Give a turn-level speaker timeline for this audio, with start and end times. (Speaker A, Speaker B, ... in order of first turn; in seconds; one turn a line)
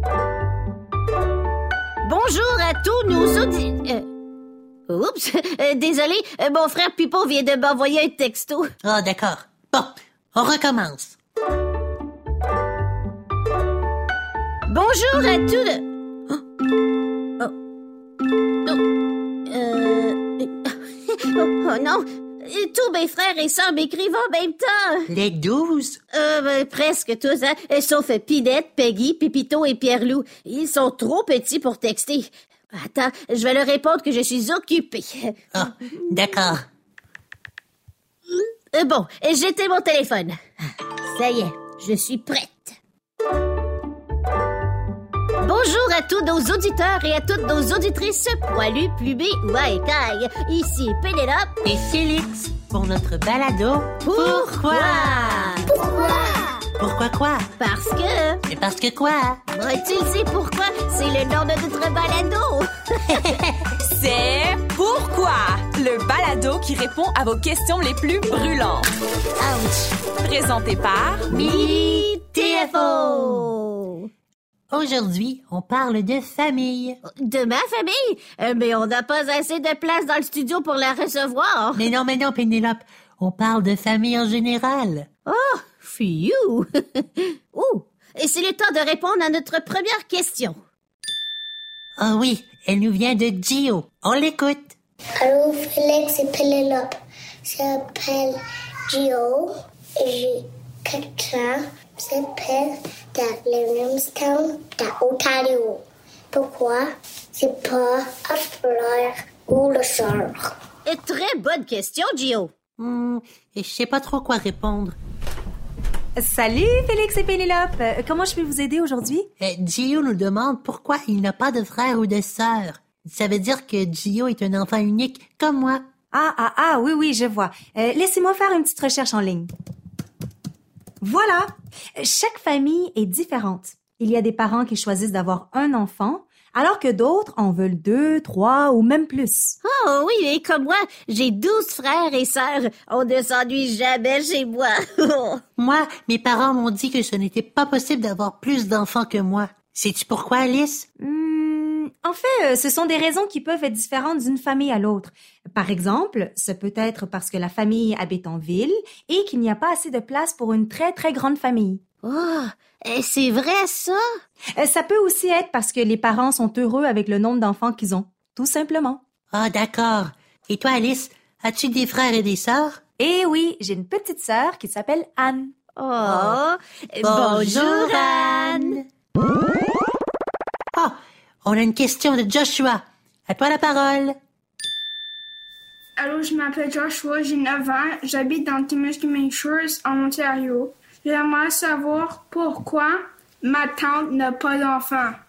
Speaker A: 2.0-4.0
Speaker A: 4.9-8.7
Speaker B: 8.8-11.2
Speaker A: 14.7-16.4
Speaker A: 19.5-20.8
Speaker A: 21.3-25.0
Speaker B: 25.1-26.0
Speaker A: 26.1-36.5
Speaker B: 35.5-36.6
Speaker A: 38.7-40.4
Speaker A: 41.0-42.8
Speaker A: 45.4-51.5
Speaker B: 51.6-55.6
Speaker A: 54.0-56.6
Speaker B: 56.8-57.5
Speaker A: 57.6-58.4
Speaker B: 58.5-59.4
Speaker A: 59.5-63.3
Speaker B: 63.1-63.7
Speaker C: 63.8-71.3
Speaker B: 71.3-73.5
Speaker A: 71.3-74.1
Speaker B: 74.7-77.0
Speaker A: 77.2-81.9
Speaker B: 81.8-85.1
Speaker A: 85.3-90.6
Speaker B: 92.0-94.8
Speaker D: 95.2-96.9
Speaker D: 97.5-98.4
Speaker D: 98.9-110.4
Speaker A: 110.9-112.5
Speaker B: 112.8-115.0
Speaker E: 116.2-119.3
Speaker B: 119.4-125.8
Speaker E: 126.1-129.5
Speaker E: 131.0-139.6
Speaker A: 139.7-145.4
Speaker B: 145.6-150.9
Speaker E: 151.0-161.8
Speaker A: 162.0-164.0
Speaker E: 164.6-169.0
Speaker B: 169.3-172.8
Speaker E: 173.0-175.5
Speaker A: 175.8-178.8
Speaker B: 176.0-176.4
Speaker B: 177.0-178.8
Speaker B: 180.7-184.2
Speaker F: 186.0-195.2